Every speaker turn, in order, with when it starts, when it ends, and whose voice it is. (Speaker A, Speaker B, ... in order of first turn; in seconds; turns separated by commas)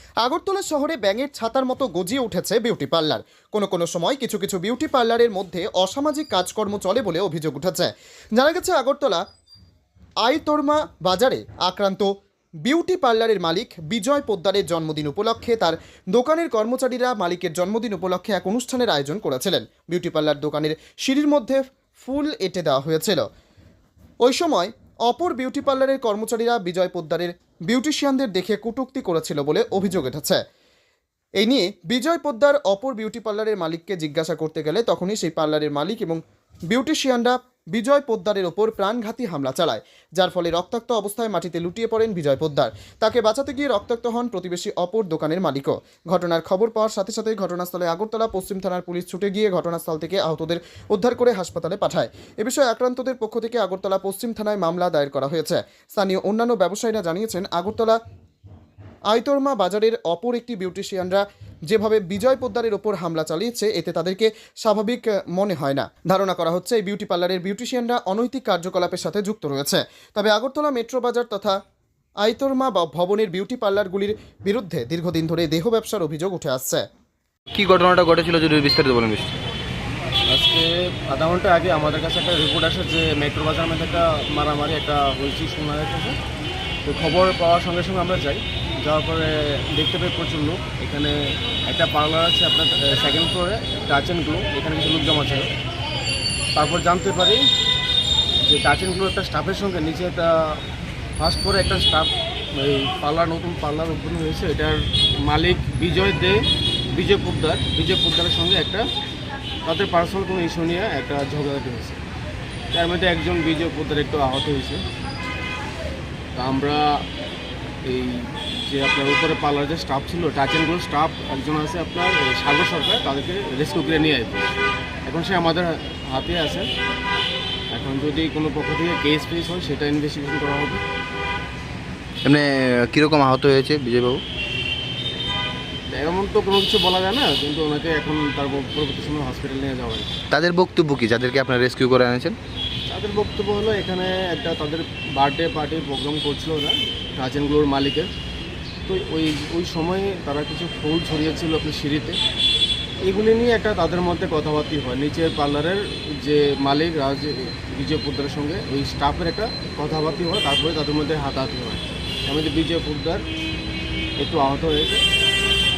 Speaker A: 0.2-9.2, Speaker A: 10.2-12.1, Speaker A: 12.7-23.2, Speaker A: 24.2-30.4, Speaker A: 31.4-58.0, Speaker A: 59.1-71.6, Speaker A: 72.2-76.9, Speaker B: 77.5-79.4, Speaker C: 80.3-86.2, Speaker C: 86.8-95.5, Speaker C: 96.6-97.4, Speaker C: 98.4-100.6, Speaker C: 101.2-106.4, Speaker C: 106.9-108.9, Speaker C: 109.7-112.0, Speaker C: 112.7-114.8, Speaker C: 116.3-117.1, Speaker C: 117.8-124.5, Speaker C: 125.1-126.7, Speaker C: 127.7-130.8, Speaker B: 132.2-134.2, Speaker C: 135.9-140.1, Speaker B: 140.3-142.4, Speaker C: 142.9-148.1, Speaker C: 148.9-152.2, Speaker C: 153.1-163.2, Speaker C: 164.2-165.0